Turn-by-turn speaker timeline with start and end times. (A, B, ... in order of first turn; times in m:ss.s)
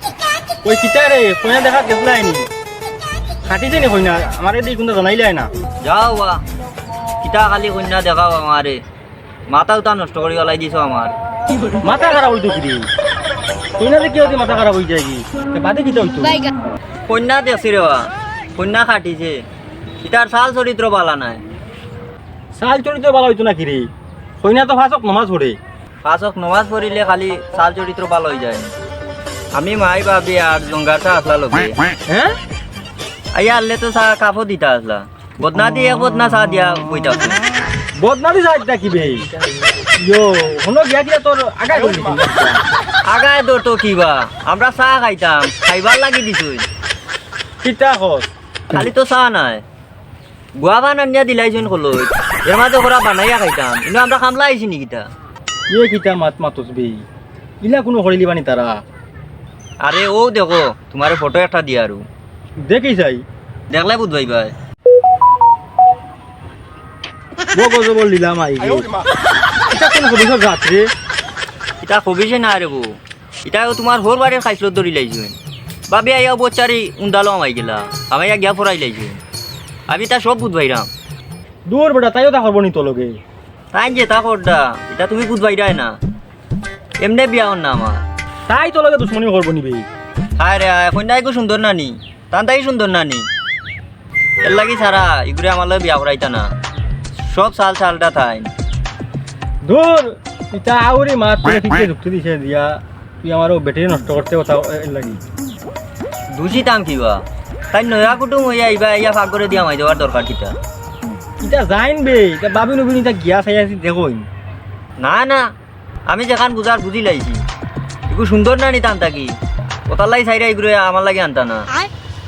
0:00.6-0:02.5 A
0:03.5-0:05.5 A
0:05.8-0:06.4 B
0:07.2-0:08.8 B
0:09.5-0:11.1 B
0:11.8-0:12.9 A
0:13.8-0:16.4 A
0:17.1-0:18.0 B
0:18.6-0:19.4 B
0:20.0-0:21.4 B
0:22.6-0:23.9 A
0:24.4-0:25.6 A
0:26.0-0:28.7 B
0:29.5-0:31.8 B
0:32.1-0:32.4 A
0:33.4-0:37.4 B
0:38.0-0:39.3 A
0:40.0-0:42.6 A
0:43.1-0:46.6 B
0:47.6-0:48.3 A
0:48.7-0:49.6 B
0:50.6-0:55.0 B
0:55.7-0:57.0 A
0:57.6-0:58.8 A
0:59.8-1:02.0 B
1:02.7-1:03.2 A
1:03.7-1:04.5 B
1:07.6-1:09.0 A
1:09.7-1:10.9 A
1:11.8-1:15.4 B
1:15.9-1:19.2 B
1:19.9-1:20.9 B
1:21.7-1:23.2 A
1:23.7-1:25.9 B
1:27.0-1:28.0 B
1:28.5-1:29.9 A
1:30.4-1:33.3 B
1:34.4-1:36.5 B
1:37.2-1:38.5 B
1:39.6-1:45.2 A
1:46.4-1:50.6 B
1:51.4-1:54.2 A
1:55.0-1:55.4 B
1:56.1-1:57.4 B
1:58.1-1:59.3 B
1:59.9-2:01.7 B